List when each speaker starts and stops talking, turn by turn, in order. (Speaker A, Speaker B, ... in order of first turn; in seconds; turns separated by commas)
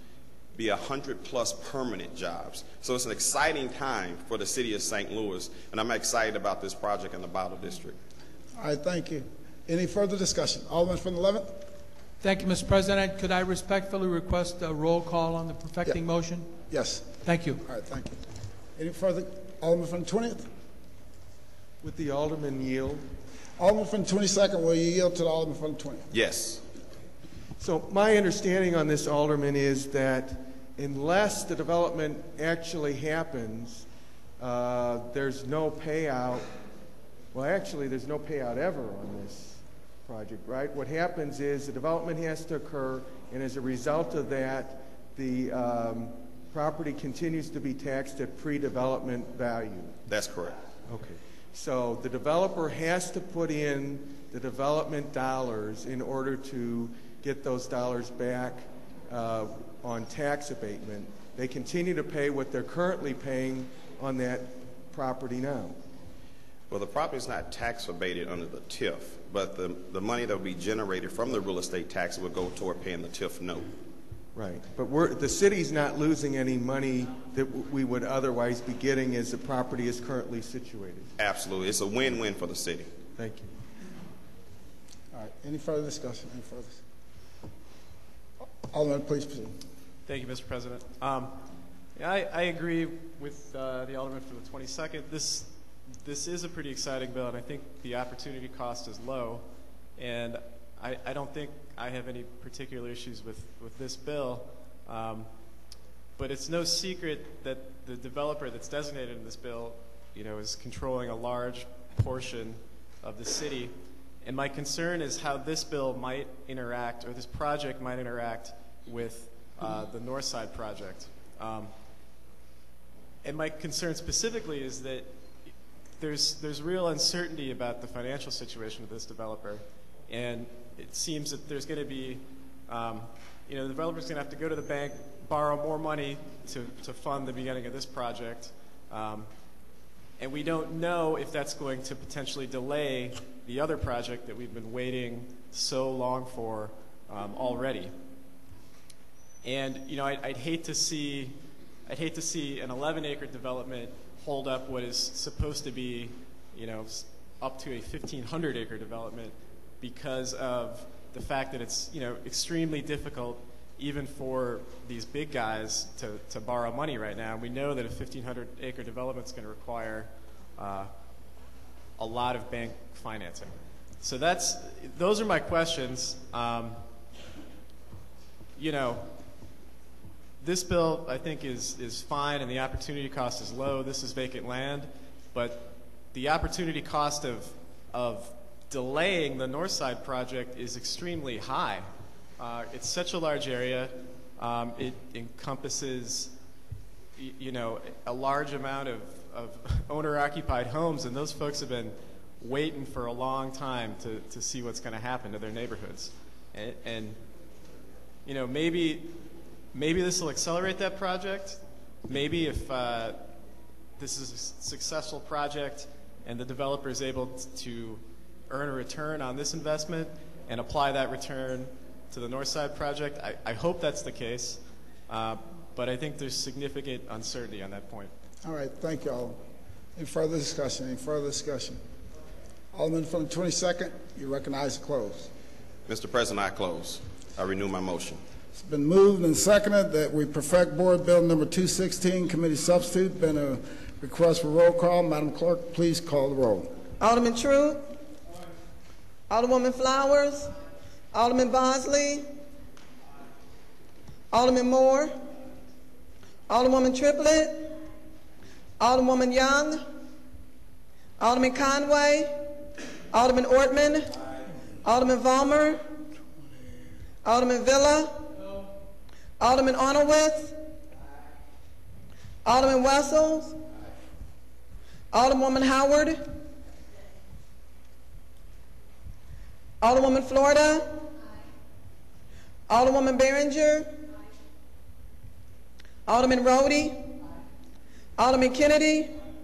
Speaker A: 0.6-8.0, Speaker B: 8.6-11.5, Speaker C: 12.2-16.5, Speaker B: 16.7-18.2, Speaker C: 17.2-17.6, Speaker B: 18.8-20.4, Speaker D: 21.8-23.0, Speaker B: 23.6-26.1, Speaker A: 26.1-26.6, Speaker D: 27.6-33.9, Speaker D: 34.4-36.5, Speaker D: 37.3-50.0, Speaker A: 50.1-50.5, Speaker D: 50.9-65.8, Speaker A: 66.7-73.7, Speaker D: 74.3-81.1, Speaker A: 81.2-82.9, Speaker D: 83.2-83.5, Speaker B: 85.1-86.8, Speaker B: 88.7-89.5, Speaker E: 90.0-91.4, Speaker E: 92.0-95.5, Speaker E: 96.0-99.4, Speaker E: 100.0-105.3, Speaker E: 106.2-121.7, Speaker E: 123.2-125.1, Speaker E: 126.0-139.3, Speaker E: 140.2-147.9, Speaker E: 149.4-151.3, Speaker E: 151.9-170.9, Speaker E: 172.0-176.8, Speaker E: 178.6-179.1, Speaker E: 180.4-191.8, Speaker E: 192.4-196.3, Speaker E: 197.2-207.2, Speaker E: 208.2-209.2, Speaker E: 209.7-213.3, Speaker E: 214.0-228.1, Speaker B: 228.4-229.4, Speaker B: 229.9-231.8, Speaker B: 232.7-235.3, Speaker A: 235.9-238.2, Speaker B: 238.5-246.7, Speaker F: 247.0-247.8, Speaker F: 249.3-250.5, Speaker F: 251.1-252.2, Speaker F: 254.3-255.1, Speaker F: 256.5-257.7, Speaker F: 258.8-259.8, Speaker F: 261.2-262.3, Speaker F: 263.1-264.1, Speaker F: 264.8-265.8, Speaker F: 267.2-268.2, Speaker F: 269.4-270.6, Speaker F: 272.4-273.5, Speaker F: 275.1-276.2, Speaker F: 279.8-281.0, Speaker F: 282.7-283.9, Speaker F: 286.1-287.0, Speaker F: 288.2-289.1